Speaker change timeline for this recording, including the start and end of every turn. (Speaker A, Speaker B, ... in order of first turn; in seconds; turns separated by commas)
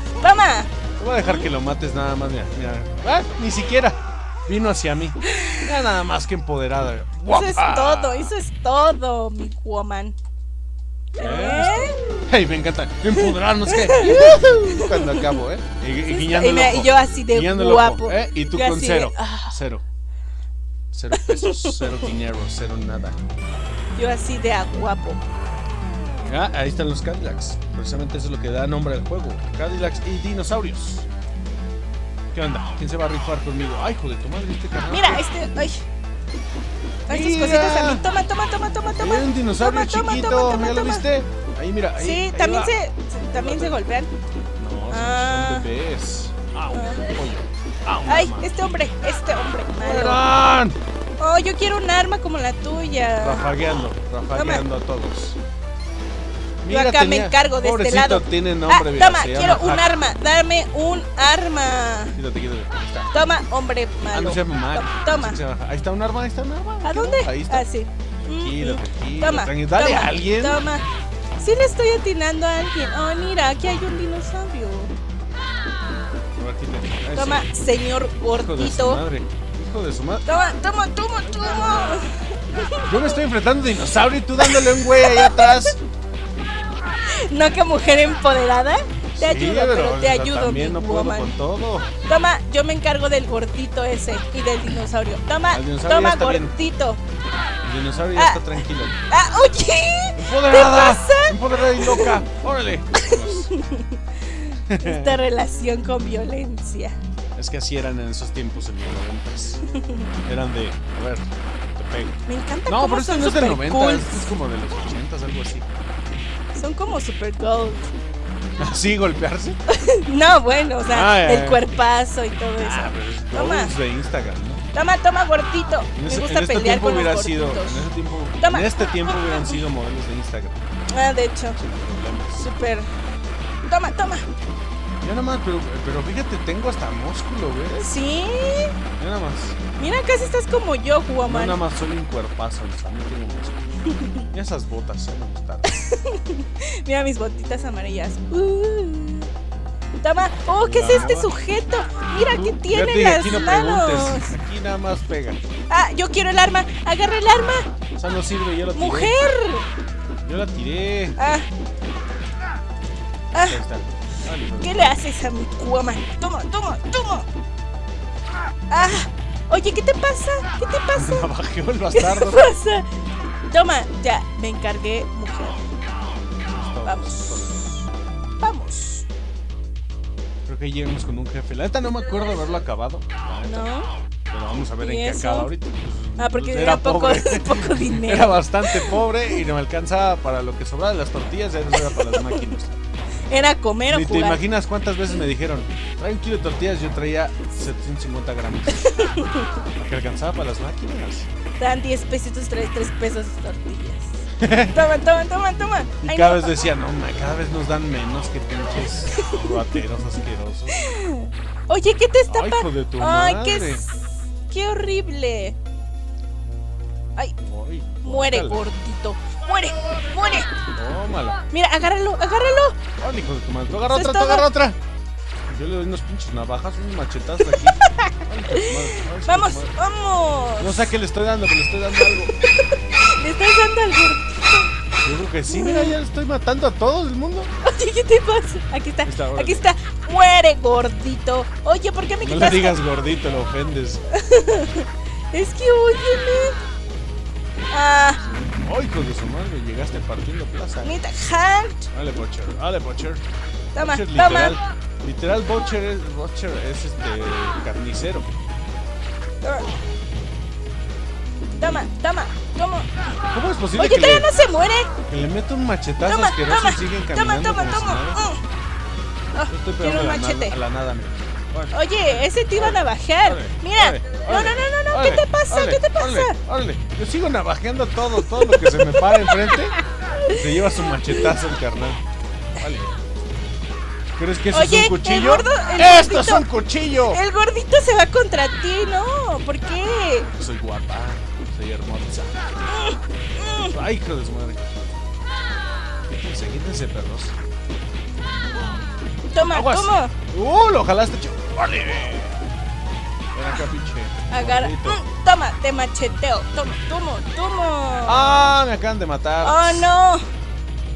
Speaker A: 0.2-0.7, Speaker B: 1.0-8.3, Speaker A: 7.3-10.2, Speaker A: 11.1-12.2, Speaker B: 11.2-19.8, Speaker A: 13.1-15.3, Speaker A: 16.1-19.6, Speaker B: 20.9-23.2, Speaker A: 21.1-21.9, Speaker A: 23.9-25.2, Speaker B: 26.2-31.1, Speaker B: 32.3-35.2, Speaker A: 34.9-35.8, Speaker A: 37.1-41.0, Speaker B: 37.1-38.0, Speaker B: 38.9-42.7, Speaker A: 42.0-44.1, Speaker B: 43.3-43.8, Speaker B: 44.6-48.5, Speaker A: 44.9-45.7, Speaker A: 46.7-47.0, Speaker A: 48.0-50.2, Speaker B: 49.8-50.8, Speaker A: 51.2-53.5, Speaker B: 53.2-55.4, Speaker A: 54.3-54.6, Speaker B: 56.6-59.9, Speaker A: 56.7-62.1, Speaker B: 62.1-63.1, Speaker A: 63.1-65.4, Speaker B: 64.1-67.6, Speaker A: 66.8-70.8, Speaker B: 68.3-70.6, Speaker A: 71.4-74.9, Speaker B: 76.3-77.5, Speaker A: 77.1-79.0, Speaker B: 78.3-80.3, Speaker A: 80.2-83.2, Speaker B: 81.2-82.0, Speaker B: 82.8-85.8, Speaker A: 84.4-85.7, Speaker A: 87.1-91.3, Speaker B: 89.2-91.9, Speaker A: 92.1-97.0, Speaker B: 95.5-96.5, Speaker B: 97.6-98.9, Speaker A: 98.1-98.4, Speaker A: 99.1-102.2, Speaker B: 100.2-103.5, Speaker A: 103.0-107.0, Speaker B: 104.7-105.2, Speaker B: 107.3-109.6, Speaker A: 109.7-110.1, Speaker B: 110.2-115.7, Speaker A: 112.2-114.3, Speaker A: 116.5-117.9, Speaker B: 118.6-119.6, Speaker A: 119.7-123.7, Speaker B: 120.9-121.6, Speaker B: 122.6-124.6, Speaker A: 124.7-127.9, Speaker B: 125.9-130.6, Speaker A: 128.4-129.6, Speaker A: 130.9-131.6, Speaker B: 131.6-132.5, Speaker A: 132.4-132.9, Speaker A: 133.7-134.2, Speaker B: 135.0-138.0, Speaker A: 137.8-138.8, Speaker B: 139.0-139.6, Speaker A: 139.8-141.6, Speaker B: 141.2-143.6, Speaker A: 143.9-144.2, Speaker B: 144.3-145.8, Speaker A: 145.6-149.3, Speaker A: 150.0-154.3, Speaker B: 150.6-151.3, Speaker B: 152.2-155.4, Speaker A: 155.7-157.7, Speaker B: 157.9-159.1, Speaker A: 158.7-159.7, Speaker B: 160.2-161.2, Speaker A: 161.2-161.5, Speaker A: 163.3-163.6, Speaker B: 163.4-164.9, Speaker A: 164.6-167.3, Speaker A: 168.7-171.3, Speaker B: 170.9-172.4, Speaker A: 171.9-172.8, Speaker A: 173.5-175.6, Speaker B: 176.4-177.9, Speaker A: 176.8-177.7, Speaker A: 178.4-179.0, Speaker B: 180.4-183.7, Speaker A: 183.4-183.9, Speaker B: 184.3-192.7, Speaker A: 184.8-185.5, Speaker A: 186.2-189.0, Speaker A: 191.8-192.5, Speaker A: 193.3-194.4, Speaker B: 193.9-198.9, Speaker A: 198.8-199.5, Speaker B: 199.8-201.3, Speaker A: 201.6-206.6, Speaker B: 204.4-204.8, Speaker B: 206.0-210.8, Speaker A: 209.1-209.6, Speaker A: 210.7-215.6, Speaker B: 212.3-213.8, Speaker B: 217.4-218.6, Speaker A: 218.0-220.5, Speaker B: 220.7-221.4, Speaker A: 221.5-222.8, Speaker B: 223.0-224.8, Speaker A: 223.8-224.5, Speaker B: 225.5-229.7, Speaker A: 227.5-230.9, Speaker B: 230.6-232.3, Speaker A: 232.5-234.7, Speaker B: 235.0-237.5, Speaker A: 235.5-235.9, Speaker A: 237.6-242.8, Speaker B: 239.1-239.7, Speaker B: 242.2-244.0, Speaker A: 244.1-246.6, Speaker A: 247.7-248.2, Speaker B: 248.2-250.9, Speaker A: 250.8-251.9, Speaker B: 251.9-253.2, Speaker A: 253.7-254.6, Speaker B: 253.8-258.3, Speaker A: 259.4-259.7, Speaker A: 261.6-262.9, Speaker B: 263.3-264.3, Speaker A: 263.7-264.9, Speaker B: 265.1-268.2, Speaker A: 266.0-268.4, Speaker A: 269.3-270.6, Speaker B: 269.5-282.0, Speaker A: 271.7-276.4, Speaker A: 278.3-280.5, Speaker A: 281.1-281.3, Speaker B: 282.6-282.9, Speaker B: 284.2-287.2, Speaker A: 284.5-290.3, Speaker B: 290.2-292.5, Speaker A: 292.7-293.7, Speaker B: 293.6-294.7, Speaker B: 296.1-297.3, Speaker A: 299.3-300.1, Speaker B: 299.4-302.4, Speaker B: 303.3-305.0, Speaker A: 304.3-308.5, Speaker B: 308.1-309.9, Speaker A: 309.4-310.3